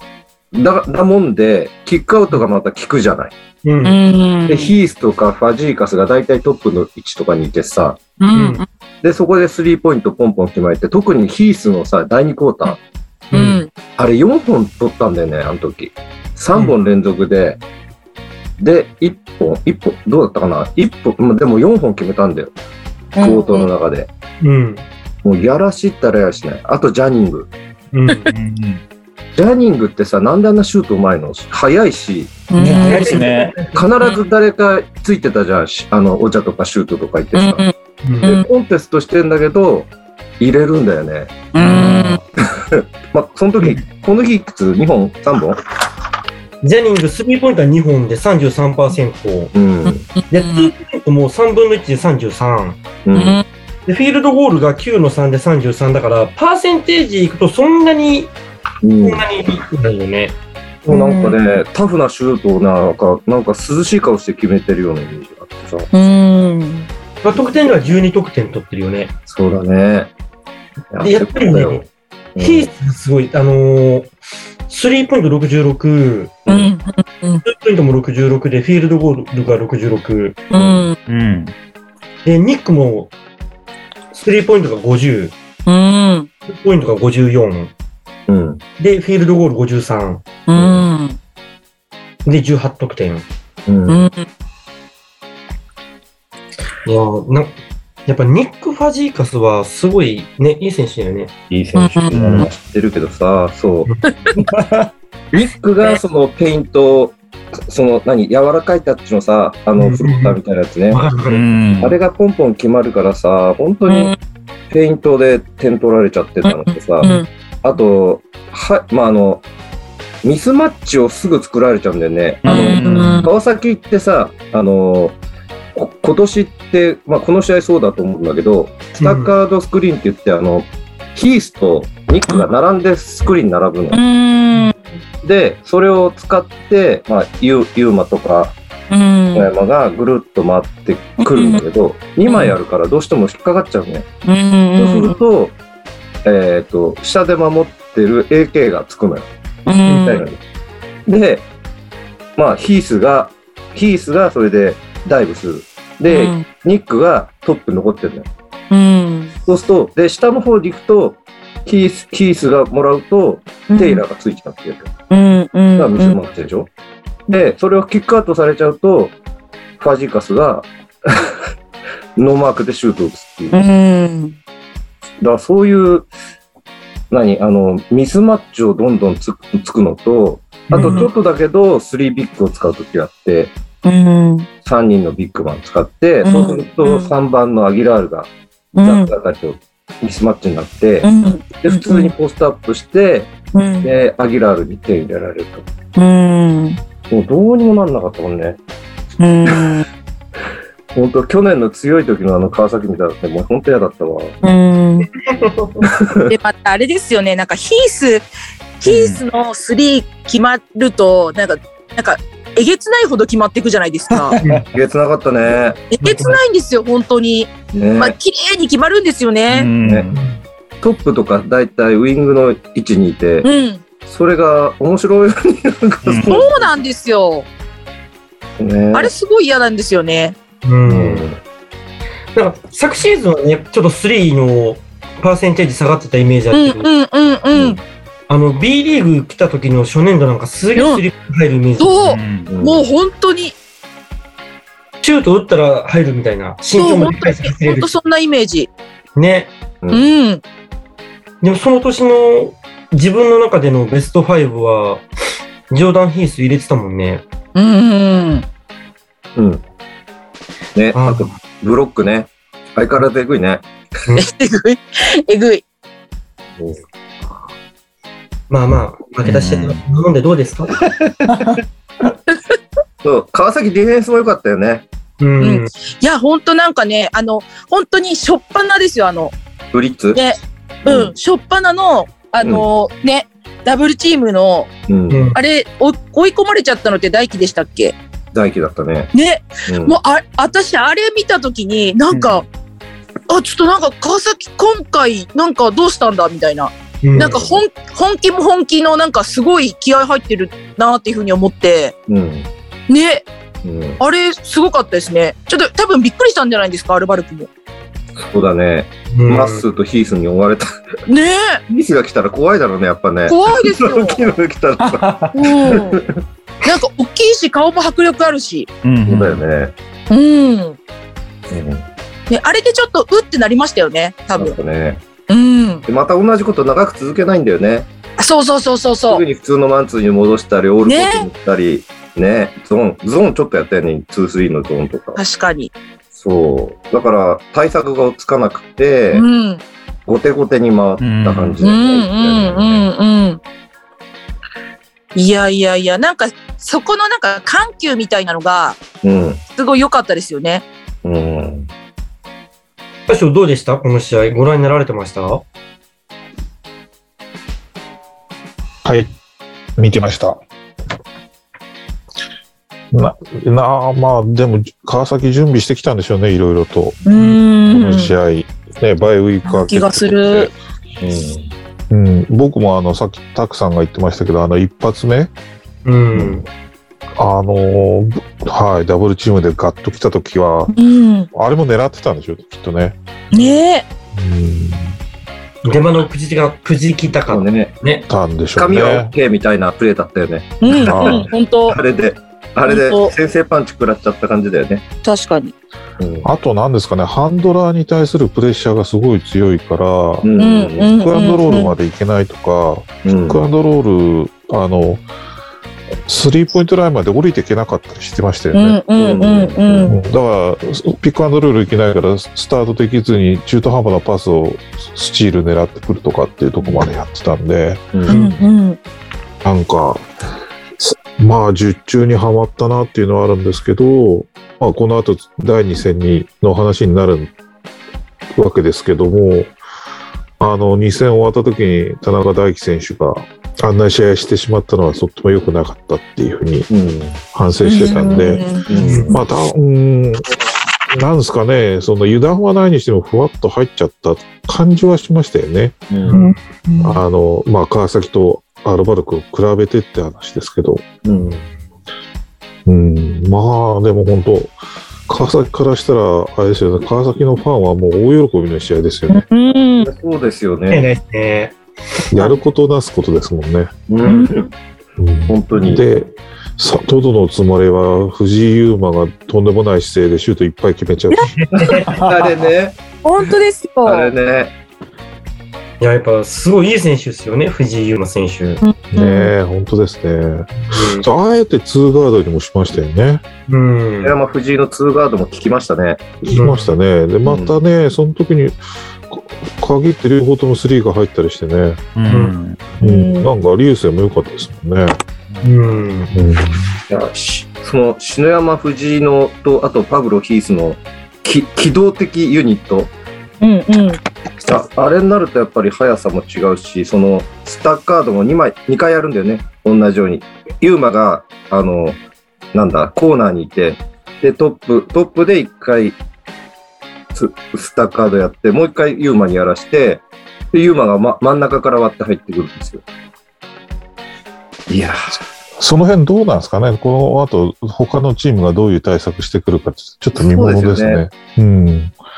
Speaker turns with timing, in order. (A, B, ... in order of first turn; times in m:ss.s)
0:00.5-0:03.3 A
0:03.6-0:04.0 B
0:03.8-0:04.7 C
0:04.5-0:08.0 A
0:08.2-0:08.6 C
0:08.3-0:08.6 B
0:09.0-0:12.8 A
0:13.3-0:13.6 B
0:13.3-0:13.7 C
0:14.0-0:17.6 A
0:18.6-0:22.5 A
0:23.2-0:23.7 C
0:23.2-0:24.1 A
0:24.4-0:24.8 B
0:25.2-0:27.5 A
0:27.9-0:28.3 B
0:28.3-0:28.8 D
0:29.4-0:32.4 A
0:32.5-0:33.2 C
0:32.6-0:33.6 D
0:32.7-0:33.8 B
0:33.7-0:37.7 A
0:37.3-0:37.7 C
0:38.0-0:38.4 B
0:38.2-0:41.3 A
0:41.5-0:42.2 C
0:41.6-0:42.2 D
0:42.4-0:45.6 A
0:46.6-0:49.5 B
0:49.5-0:50.0 A
0:49.9-0:50.7 C
0:50.3-0:52.8 B
0:53.0-0:53.4 A
0:53.1-0:53.4 C
0:53.8-0:58.3 B
0:58.8-0:59.2 A
0:59.0-1:00.4 B
1:00.9-1:01.4 C
1:00.9-1:05.9 A
1:05.9-1:06.9 C
1:07.2-1:09.1 B
1:09.3-1:10.1 A
1:10.9-1:12.7 A
1:11.0-1:11.8 B
1:12.4-1:14.1 B
1:14.7-1:16.3 B
1:16.4-1:16.7 A
1:16.5-1:17.4 C
1:17.4-1:20.4 B
1:20.5-1:21.0 C
1:20.5-1:20.9 A
1:21.0-1:21.5 D
1:22.2-1:23.1 B
1:24.1-1:25.3 B
1:25.6-1:26.3 C
1:26.5-1:27.7 B
1:28.3-1:28.6 A
1:28.8-1:30.2 B
1:30.5-1:31.2 C
1:30.5-1:30.8 A
1:32.2-1:33.2 B
1:33.7-1:34.0 A
1:33.9-1:34.2 C
1:36.8-1:41.3 B
1:41.5-1:43.9 A
1:41.8-1:42.1 C
1:42.1-1:42.5 D
1:43.8-1:44.4 B
1:44.4-1:44.9 D
1:45.3-1:47.2 A
1:47.7-1:51.0 A
1:49.8-1:50.4 B
1:50.9-1:51.4 B
1:51.3-1:52.0 D
1:51.8-1:54.1 A
1:53.9-1:54.1 C
1:54.7-1:59.4 A
1:56.4-1:57.3 C
2:00.2-2:05.2 A
2:02.4-2:03.1 B
2:02.4-2:03.3 D
2:02.5-2:03.3 C
2:05.7-2:14.0 A
2:09.0-2:09.3 B
2:13.9-2:14.8 C
2:15.2-2:18.6 A
2:18.9-2:19.5 C
2:19.3-2:24.0 A
2:21.2-2:21.6 C
2:22.3-2:22.5 C
2:24.2-2:25.2 C
2:24.8-2:25.5 A
2:26.2-2:29.3 A
2:29.6-2:30.2 C
2:29.9-2:30.4 A
2:31.1-2:31.4 A
2:32.4-2:38.3 A
2:36.1-2:36.4 C
2:38.7-2:39.3 C
2:39.4-2:44.9 A
2:43.7-2:44.0 C
2:45.1-2:46.2 C
2:45.8-2:46.7 A
2:47.3-2:49.2 A
2:49.8-2:51.3 A
2:52.2-2:53.6 A
2:53.5-2:54.4 C
2:55.2-2:56.1 A
2:57.1-3:03.5 A
3:00.7-3:01.1 B
3:00.8-3:01.1 C
3:03.8-3:04.5 C
3:04.6-3:08.3 A
3:06.2-3:07.1 C
3:08.7-3:09.1 C
3:08.8-3:15.6 A
3:11.0-3:12.1 C
3:13.5-3:13.9 C
3:16.0-3:16.8 C
3:17.1-3:18.6 A
3:19.2-3:19.8 C
3:19.5-3:19.7 A
3:20.9-3:24.4 A
3:24.4-3:25.1 C
3:25.1-3:25.8 B
3:25.8-3:26.3 A
3:26.3-3:28.2 C
3:28.8-3:34.3 C
3:28.8-3:29.2 D
3:34.1-3:34.6 D
3:34.7-3:35.8 A
3:35.9-3:39.7 C
3:36.0-3:36.4 B
3:37.7-3:38.1 A
3:39.5-3:40.2 D
3:39.8-3:40.1 A
3:40.1-3:40.4 B
3:40.8-3:43.5 A
3:43.4-3:43.8 C
3:44.0-3:46.8 A
3:46.0-3:46.4 D
3:46.3-3:47.5 C
3:48.6-3:49.1 A
3:48.9-3:50.4 C
3:50.6-3:51.3 B
3:50.8-3:51.4 A
3:52.3-3:56.9 B
3:56.5-3:57.8 C
3:57.5-3:57.8 A
3:58.3-4:02.0 B
4:00.8-4:01.0 C
4:01.8-4:03.6 C
4:02.0-4:02.5 D
4:02.5-4:02.9 A
4:05.0-4:07.9 B
4:06.7-4:08.7 C
4:09.2-4:09.5 B
4:09.9-4:10.4 C
4:11.4-4:15.0 B
4:15.7-4:17.2 B
4:17.5-4:18.4 C
4:19.4-4:19.6 A
4:20.7-4:23.6 A
4:20.9-4:21.3 B
4:24.2-4:25.6 C
4:28.5-4:30.7 B
4:29.2-4:29.8 D
4:31.0-4:31.3 A
4:31.3-4:31.6 D
4:33.0-4:34.8 A
4:35.2-4:35.7 B
4:35.4-4:39.3 C
4:39.7-4:40.2 A
4:40.1-4:44.7 C
4:40.8-4:41.1 A
4:44.9-4:45.3 A
4:45.1-4:45.4 B
4:45.3-4:47.9 C
4:48.3-4:49.1 A
4:49.1-4:52.4 C
4:49.7-4:50.0 A
4:52.1-4:52.4 D
4:53.3-5:01.9 C
4:57.0-4:57.4 B
4:57.2-4:57.6 A
5:02.1-5:02.5 A
5:02.9-5:03.2 C
5:03.6-5:04.0 A
5:04.0-5:07.5 C
5:08.2-5:10.6 A
5:09.1-5:09.6 B
5:11.1-5:11.6 C
5:11.7-5:16.2 A
5:13.3-5:14.2 C
5:14.8-5:15.4 D
5:15.3-5:16.0 C
5:16.6-5:18.7 C
5:18.8-5:19.4 D
5:19.0-5:19.7 A
5:20.1-5:20.8 C
5:21.5-5:21.8 A
5:22.3-5:24.6 C
5:24.3-5:25.0 A
5:25.3-5:25.8 C
5:25.9-5:27.9 A
5:28.2-5:29.2 C
5:29.1-5:35.2 A
5:30.8-5:31.2 C
5:35.2-5:35.7 C
5:36.1-5:39.2 A
5:39.1-5:39.6 C
5:40.0-5:42.9 A
5:41.0-5:41.6 D
5:41.6-5:43.4 C
5:45.1-5:48.8 C
5:49.0-5:49.4 A
5:49.5-5:50.6 C
5:51.0-5:51.7 A
5:53.1-5:55.4 B
5:58.8-5:59.1 E
5:59.8-6:00.4 E
6:02.9-6:07.0 E
6:07.0-6:08.1 C
6:07.1-6:07.4 B
6:07.7-6:10.5 E
6:09.4-6:10.5 C
6:11.0-6:11.5 A
6:11.9-6:15.3 E
6:15.8-6:16.4 B
6:17.2-6:20.7 E
6:20.7-6:21.3 C
6:21.3-6:23.0 E
6:23.3-6:23.6 B
6:23.3-6:23.9 C
6:24.1-6:25.0 E
6:25.6-6:28.0 B
6:27.3-6:27.7 A
6:28.1-6:29.1 E
6:28.6-6:34.8 A
6:30.6-6:31.8 C
6:30.6-6:31.3 E
6:32.7-6:33.1 C
6:35.0-6:35.5 C
6:36.0-6:36.3 A
6:36.2-6:40.3 E
6:40.2-6:40.9 A
6:40.4-6:41.7 C
6:40.8-6:45.0 E
6:43.0-6:43.4 A
6:46.0-6:48.8 E
6:48.5-6:49.9 C
6:49.0-6:49.9 A
6:49.9-6:58.0 E
6:57.9-6:58.2 A
6:58.1-6:58.8 C
6:58.1-6:58.4 B
6:59.4-7:00.0 E
7:00.8-7:07.3 E
7:08.3-7:09.5 E
7:10.4-7:16.7 E
7:16.7-7:17.2 A
7:17.3-7:20.2 E
7:17.6-7:18.7 C
7:18.7-7:19.2 A
7:18.7-7:19.2 B
7:20.9-7:25.9 E
7:25.9-7:26.2 A
7:26.1-7:27.0 B
7:26.8-7:30.8 E
7:31.0-7:31.4 A
7:32.6-7:34.5 E
7:35.1-7:39.2 E
7:39.1-7:39.9 C
7:39.8-7:40.9 A
7:40.7-7:41.5 B
7:42.1-7:43.7 E
7:43.9-7:44.5 A
7:44.0-7:44.3 C
7:45.0-7:51.3 E
7:45.3-7:45.8 A
7:51.1-7:51.8 C
7:51.4-7:52.0 B
7:51.6-7:52.8 A
7:53.0-7:54.1 C
7:53.8-7:54.5 A
7:55.8-7:58.4 B
7:58.6-7:59.3 C
7:58.9-8:03.2 E
8:00.6-8:01.1 B
8:03.5-8:04.1 B
8:04.0-8:06.0 A
8:06.2-8:08.6 E
8:06.3-8:06.7 B
8:07.2-8:07.6 A
8:09.1-8:11.8 E
8:11.9-8:12.7 D
8:12.1-8:12.3 B
8:12.8-8:13.3 C
8:12.8-8:15.0 E
8:15.4-8:16.1 B
8:16.1-8:16.8 E
8:16.9-8:22.9 A
8:23.4-8:24.0 C
8:24.4-8:32.0 A
8:32.5-8:36.0 A
8:37.1-8:42.8 A
8:44.7-8:45.2 A
8:45.6-8:52.0 E
8:50.1-8:51.0 A